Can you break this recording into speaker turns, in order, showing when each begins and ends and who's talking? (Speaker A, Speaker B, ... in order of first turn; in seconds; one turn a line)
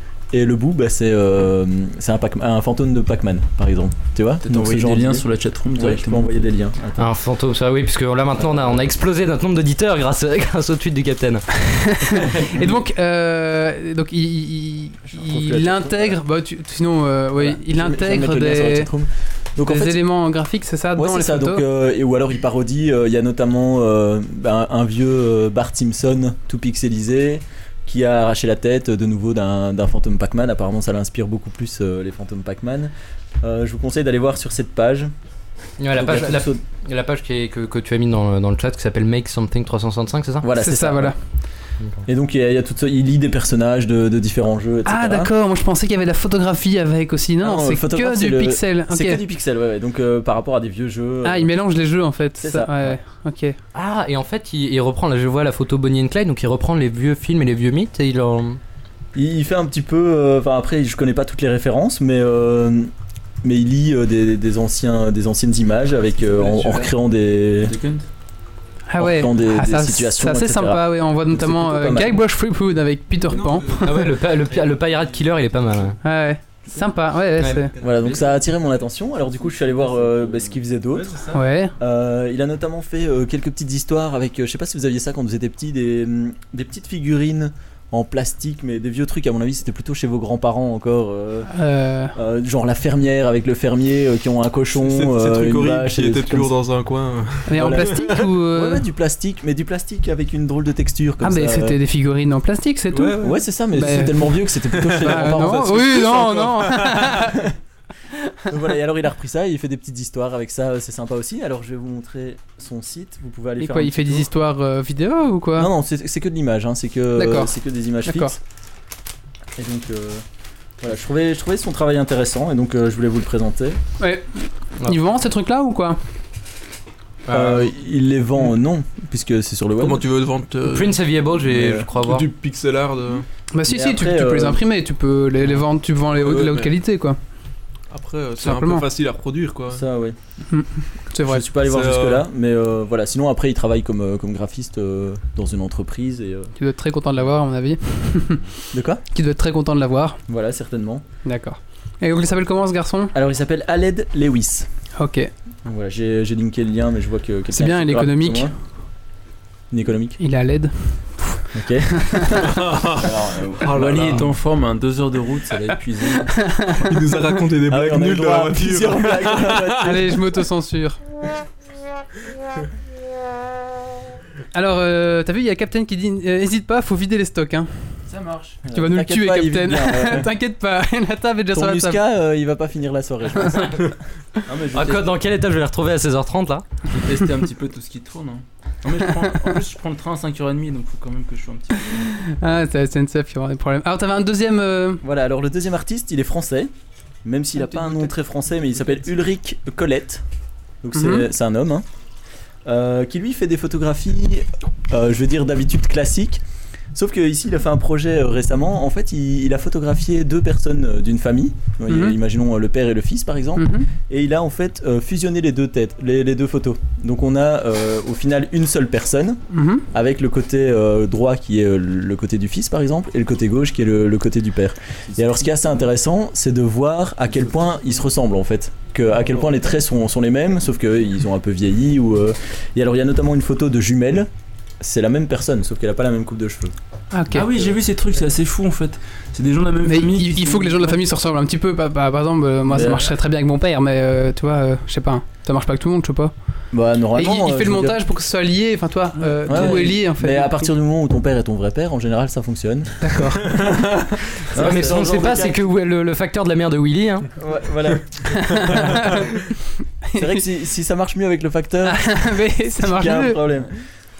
Speaker A: 0.3-7.1
Speaker B: 4.4-6.4
Speaker C: 7.0-12.3
Speaker D: 11.8-18.9
Speaker A: 15.1-16.2
Speaker A: 17.4-20.0
Speaker D: 19.7-21.6
Speaker A: 20.9-35.1
Speaker C: 35.8-40.5
Speaker A: 35.9-36.6
Speaker A: 40.4-41.1
Speaker D: 40.6-41.1
Speaker A: 42.1-45.3
Speaker D: 44.9-49.2
Speaker A: 47.4-51.5
Speaker D: 51.2-53.6
Speaker A: 52.4-53.0
Speaker C: 53.7-58.6
Speaker A: 59.1-62.9
Speaker A: 63.4-67.8
Speaker B: 66.2-66.9
Speaker B: 67.6-68.1
Speaker D: 68.9-74.0
Speaker A: 69.0-72.2
Speaker E: 73.3-75.6
Speaker C: 73.8-76.0
Speaker D: 76.0-77.7
Speaker C: 77.4-78.2
Speaker E: 77.7-78.2
Speaker A: 77.8-81.2
Speaker B: 79.2-80.6
Speaker E: 80.9-81.4
Speaker D: 81.3-81.7
Speaker A: 81.8-91.5
Speaker D: 91.5-92.2
Speaker A: 92.1-96.5
Speaker E: 94.8-98.2
Speaker D: 97.5-98.8
Speaker A: 97.5-101.8
Speaker D: 101.2-107.4
Speaker E: 102.9-103.4
Speaker A: 103.2-106.5
Speaker E: 104.7-107.2
Speaker A: 107.1-107.3
Speaker A: 108.5-114.3
Speaker D: 113.6-115.7
Speaker A: 115.6-118.4
Speaker D: 117.2-117.5
Speaker D: 118.0-118.4
Speaker A: 119.6-120.2
Speaker A: 120.8-123.8
Speaker D: 124.0-126.0
Speaker E: 127.3-127.7
Speaker A: 127.3-130.1
Speaker E: 129.8-131.0
Speaker C: 130.7-132.2
Speaker A: 131.5-131.9
Speaker E: 132.0-133.2
Speaker D: 133.5-137.2
Speaker A: 133.7-134.6
Speaker E: 136.1-136.8
Speaker E: 137.9-139.8
Speaker D: 138.4-138.9
Speaker A: 139.7-140.2
Speaker D: 140.5-141.5
Speaker A: 141.3-146.5
Speaker E: 141.6-142.2
Speaker D: 146.6-148.5
Speaker A: 148.7-149.0
Speaker D: 149.1-150.2
Speaker A: 150.3-151.0
Speaker D: 151.2-153.1
Speaker A: 153.1-154.7
Speaker D: 155.0-155.3
Speaker A: 155.7-158.6
Speaker D: 157.5-158.5
Speaker A: 159.7-160.2
Speaker D: 160.2-162.5
Speaker A: 161.5-162.5
Speaker E: 162.4-164.3
Speaker B: 162.9-166.7
Speaker D: 166.6-166.9
Speaker E: 166.9-169.8
Speaker A: 167.7-170.2
Speaker D: 169.8-171.0
Speaker D: 174.5-177.9
Speaker B: 178.1-178.6
Speaker A: 178.7-180.3
Speaker D: 178.7-182.0
Speaker A: 181.5-183.9
Speaker B: 184.5-185.1
Speaker C: 184.7-186.7
Speaker B: 186.9-192.4
Speaker D: 192.1-195.0
Speaker A: 195.0-196.7
Speaker A: 197.2-200.2
Speaker D: 197.6-198.1
Speaker A: 200.8-201.8
Speaker D: 200.9-201.3
Speaker A: 202.7-206.4
Speaker A: 206.9-234.3
Speaker D: 211.9-212.2
Speaker D: 213.6-213.9
Speaker D: 219.5-219.9
Speaker A: 234.8-236.7
Speaker D: 237.1-237.5
Speaker B: 237.3-241.0
Speaker D: 239.8-246.3
Speaker A: 242.7-243.1
Speaker A: 246.7-248.0
Speaker D: 247.2-250.7
Speaker B: 249.2-250.0
Speaker A: 249.5-253.6
Speaker D: 253.0-253.7
Speaker C: 254.5-257.3
Speaker A: 254.5-255.6
Speaker A: 257.4-259.0
Speaker D: 258.3-259.3
Speaker D: 260.1-260.4
Speaker A: 260.1-263.7
Speaker D: 261.9-263.4